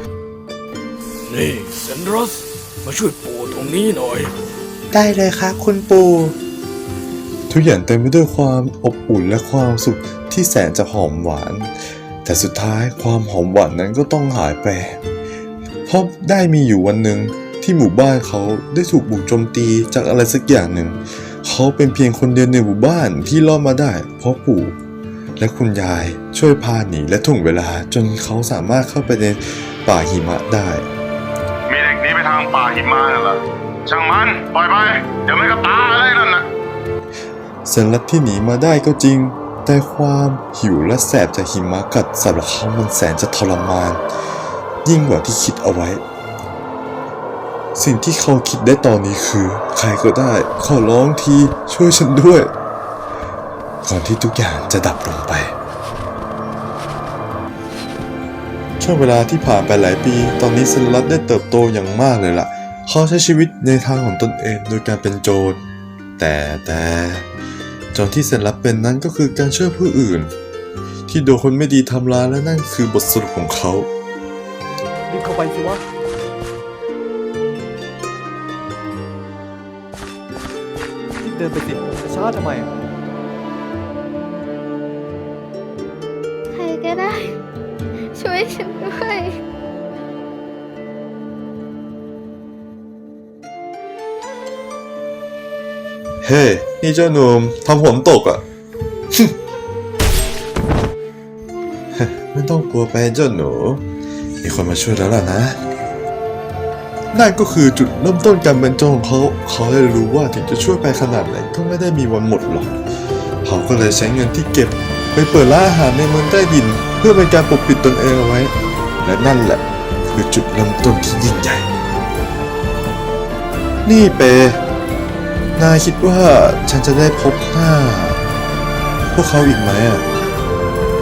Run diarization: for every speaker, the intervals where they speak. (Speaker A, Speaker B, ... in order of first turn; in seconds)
Speaker A: 1.3-4.3
Speaker B: 4.9-6.4, 7.5-11.7, 12.2-15.0, 15.9-24.8, 25.4-30.9, 37.6-44.0, 44.9-46.0, 47.8-52.5, 53.9-55.5, 58.8-65.6, 66.2-67.3, 67.9-70.3, 71.1-73.9, 96.2-98.4, 102.0-103.8, 104.4-105.6, 107.1-112.8, 113.4-121.7, 123.8-124.6, 125.6-128.2, 129.1-130.1
Speaker C: 31.7-36.5
Speaker D: 75.1-75.8, 81.2-82.7
Speaker E: 86.5-87.4, 88.1-89.4